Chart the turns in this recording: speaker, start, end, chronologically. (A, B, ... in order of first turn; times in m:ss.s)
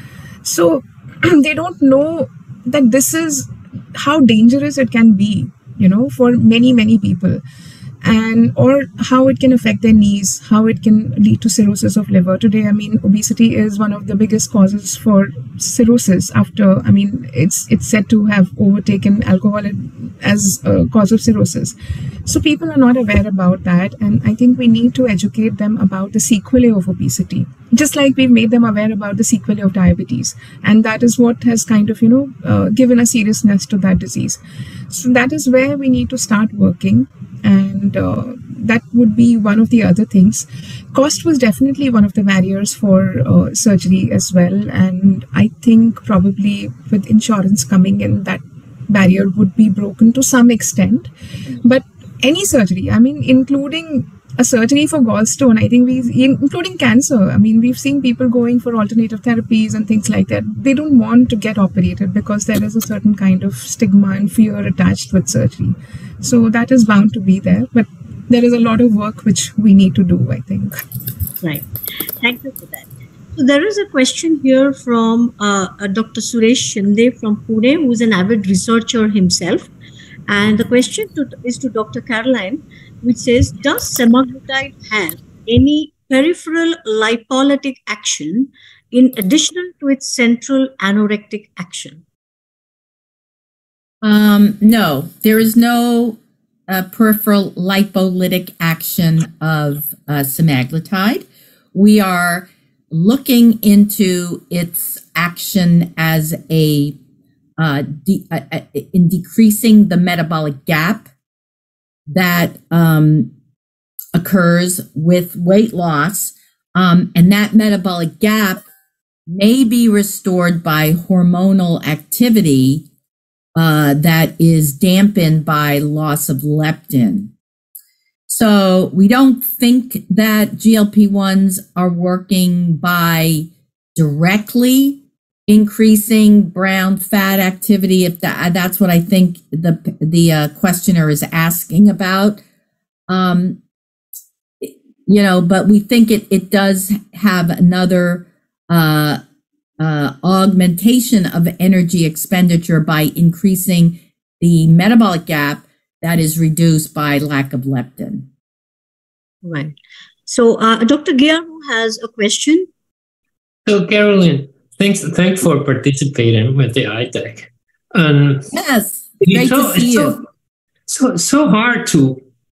0:00.4-0:07.4 A
0:08.0-0:51.1 A
0:51.6-1:10.8 A
1:12.2-1:19.7 B
1:20.3-1:32.0 B
1:34.0-1:46.9 C
1:47.6-1:51.1 C
1:52.1-1:53.3 C
1:54.1-1:58.6 C
1:59.3-2:02.8 C
2:03.6-2:07.3 C
2:08.3-2:22.4 C
2:23.1-2:23.6 C
2:24.6-2:29.2 C
2:29.8-2:38.3 C
2:39.4-2:39.7 B
2:40.3-2:42.7 B
2:43.6-2:48.5 D
2:48.5-2:50.2 C
2:49.2-2:50.2 D
2:50.9-2:52.2 D